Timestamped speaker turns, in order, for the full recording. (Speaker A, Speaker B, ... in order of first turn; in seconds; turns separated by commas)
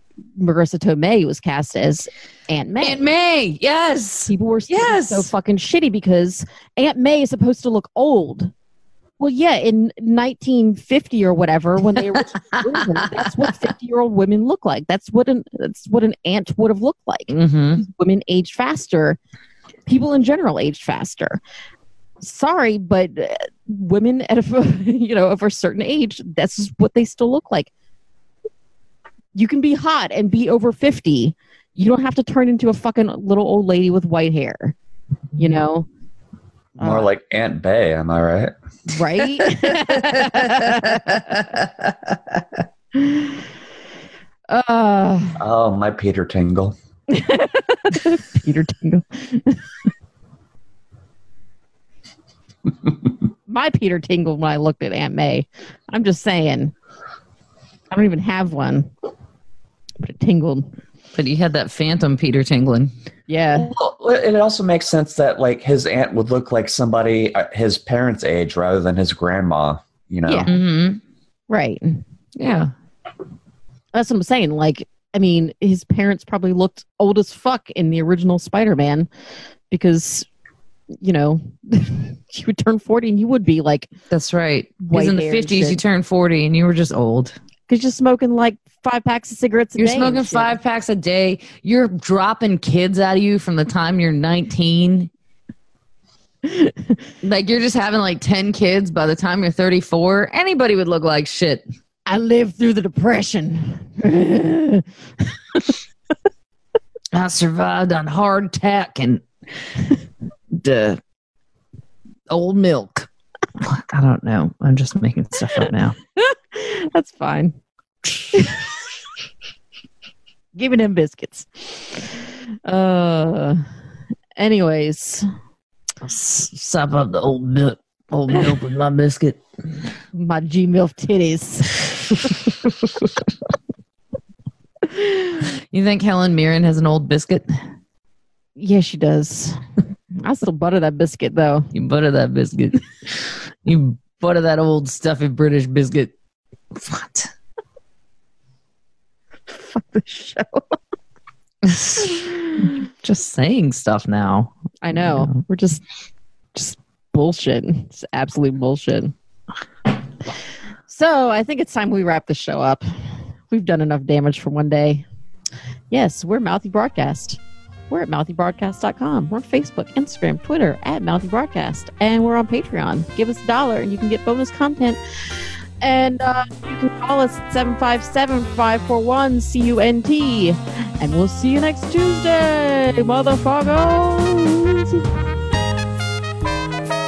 Speaker A: 0.4-3.0, Speaker B: 2.8-5.3, Speaker A: 4.3-8.5, Speaker A: 9.2-19.2, Speaker B: 11.9-13.5, Speaker B: 17.3-17.8, Speaker A: 19.9-21.4, Speaker A: 22.2-27.7, Speaker A: 29.3-34.7, Speaker A: 35.4-35.9, Speaker A: 36.8-37.1, Speaker C: 36.8-38.5, Speaker A: 38.9-41.2, Speaker B: 39.4-42.1, Speaker A: 42.9-43.3, Speaker A: 44.5-45.4, Speaker C: 45.4-46.7, Speaker A: 47.1-49.6, Speaker A: 53.5-56.7, Speaker A: 57.9-58.9, Speaker A: 60.0-60.7, Speaker B: 61.1-62.9, Speaker A: 63.3-63.7, Speaker C: 63.6-70.5, Speaker A: 70.3-70.6, Speaker B: 70.5-71.0, Speaker A: 71.5-72.0, Speaker B: 72.4-72.7, Speaker A: 73.9-79.1, Speaker A: 79.7-80.2, Speaker A: 81.0-83.9, Speaker B: 84.1-87.3, Speaker A: 84.8-85.8, Speaker A: 87.7-90.6, Speaker B: 89.8-95.1, Speaker A: 96.4-97.0, Speaker B: 97.2-101.6, Speaker A: 102.1-104.8, Speaker B: 107.1-109.2, Speaker B: 110.5-111.0, Speaker B: 112.3-115.9, Speaker A: 116.2-117.5, Speaker A: 118.3-118.6, Speaker A: 120.5-123.6, Speaker A: 124.3-125.3, Speaker B: 126.0-129.4, Speaker A: 130.1-131.9, Speaker B: 135.7-137.5, Speaker A: 138.6-139.6, Speaker A: 140.2-141.7, Speaker B: 141.7-146.1, Speaker B: 146.7-147.3, Speaker A: 149.5-150.6, Speaker B: 151.6-155.3, Speaker A: 152.1-152.7, Speaker A: 154.8-155.8, Speaker A: 156.5-159.1, Speaker A: 160.9-165.1, Speaker A: 165.9-175.0, Speaker A: 175.8-185.1